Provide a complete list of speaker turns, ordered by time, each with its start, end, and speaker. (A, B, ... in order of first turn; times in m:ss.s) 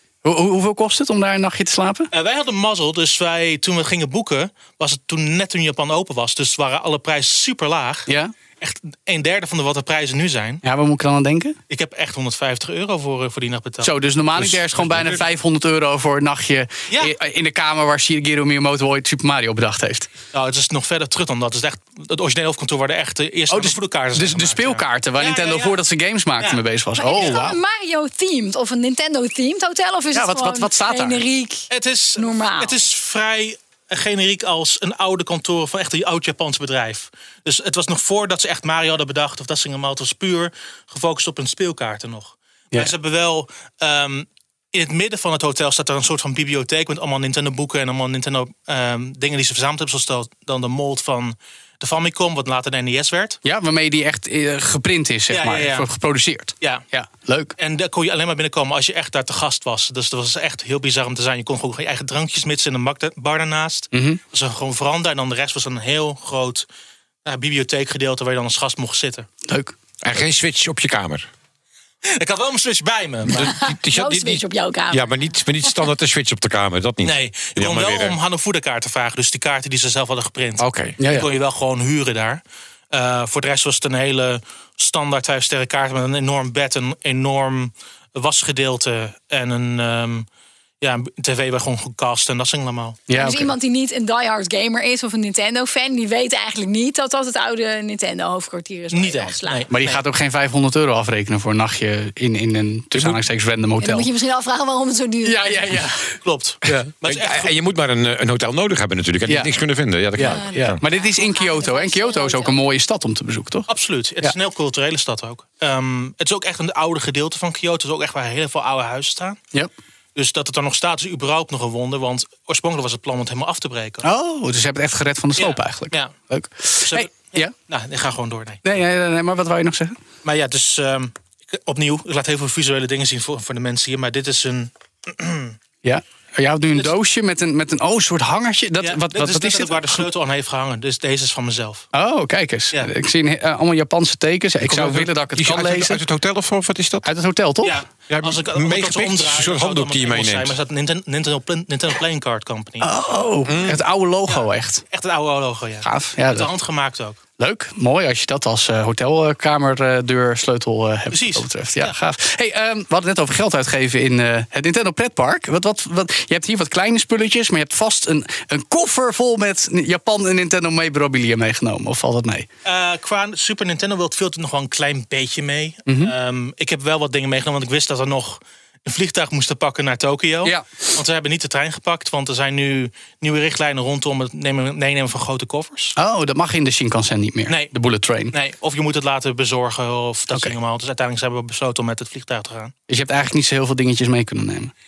0:00.2-0:02.1 A
0:02.1-0:08.1 B
0:08.1-0:08.3 A
0:08.6-0:10.6 B
0:10.6-0:11.6 A
0:11.7-0:14.0 B
0:13.8-0:20.1 A
0:14.4-0:15.2 C
0:20.3-0:25.8 B
0:23.5-0:27.6 A
0:27.0-0:32.8 D
0:30.1-0:31.2 A
0:31.7-0:53.4 B
0:53.4-0:57.5 A
0:55.3-0:55.9 B
0:57.6-1:06.7 B
1:03.9-1:04.2 A
1:07.2-1:09.3 B
1:09.5-1:09.7 A
1:10.0-1:11.3 C
1:12.1-1:13.5 B
1:13.3-1:18.2 C
1:13.4-1:15.2 D
1:17.0-1:30.3 B
1:20.6-1:21.0 C
1:21.0-1:21.3 A
1:30.8-1:33.0 B
1:33.1-1:33.5 A
1:33.1-1:39.7 D
1:38.9-1:39.7 B
1:39.7-1:44.1 A
1:43.8-1:45.8 D
1:45.2-1:46.2 A
1:46.2-1:47.5 B
1:46.8-1:50.8 C
1:49.3-1:49.5 A
1:50.2-1:53.7 A
1:50.2-1:52.6 D
1:53.7-1:59.4 B
2:00.2-2:04.0 B
2:04.0-2:07.5 A
2:05.4-2:06.1 B
2:06.8-2:08.6 B
2:08.6-2:10.0 A
2:10.2-2:15.6 B
2:15.8-2:20.0 A
2:18.8-2:21.9 B
2:21.9-2:26.0 A
2:24.6-2:27.1 C
2:27.0-2:27.8 A
2:27.6-2:32.9 B
2:28.1-2:30.6 C
2:32.8-2:34.8 A
2:33.4-2:33.8 C
2:34.3-2:37.2 B
2:35.8-2:36.5 A
2:37.4-2:52.5 A
2:41.1-2:42.0 B
2:52.6-3:05.9 B
2:55.9-2:56.1 A
3:06.0-3:08.3 A
3:08.3-3:12.7 B
3:12.9-3:14.7 A